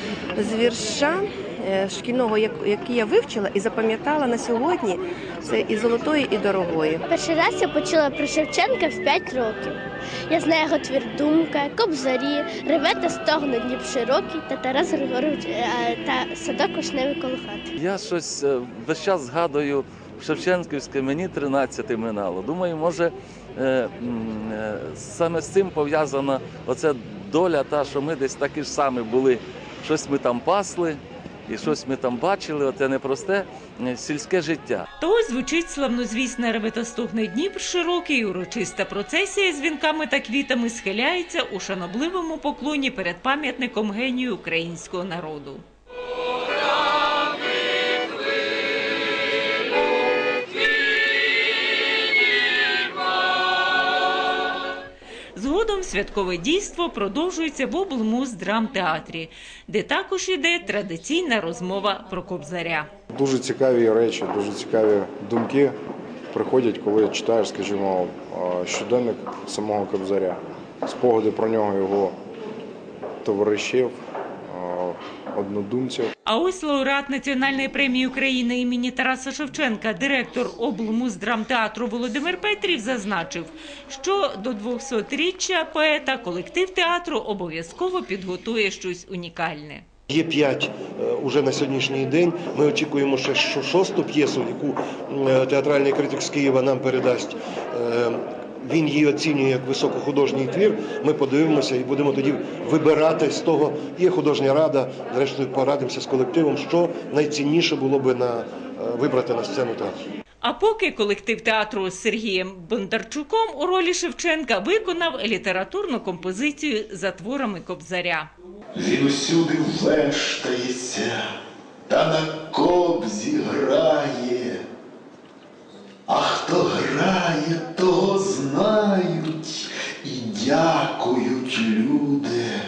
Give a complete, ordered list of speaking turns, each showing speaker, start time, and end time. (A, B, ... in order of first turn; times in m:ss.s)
0:00.4-0:07.0 A
0:07.1-0:17.6 B
0:17.8-0:34.8 C
0:35.0-0:45.6 D
0:55.3-1:02.9 D
1:03.1-1:05.8 E
1:06.3-1:12.2 E
1:13.2-1:16.1 E
1:16.2-1:29.8 D
1:30.1-1:50.0 F
1:50.4-1:58.3 D
1:58.7-2:01.2 G
2:01.9-2:04.6 G
2:06.1-2:12.5 G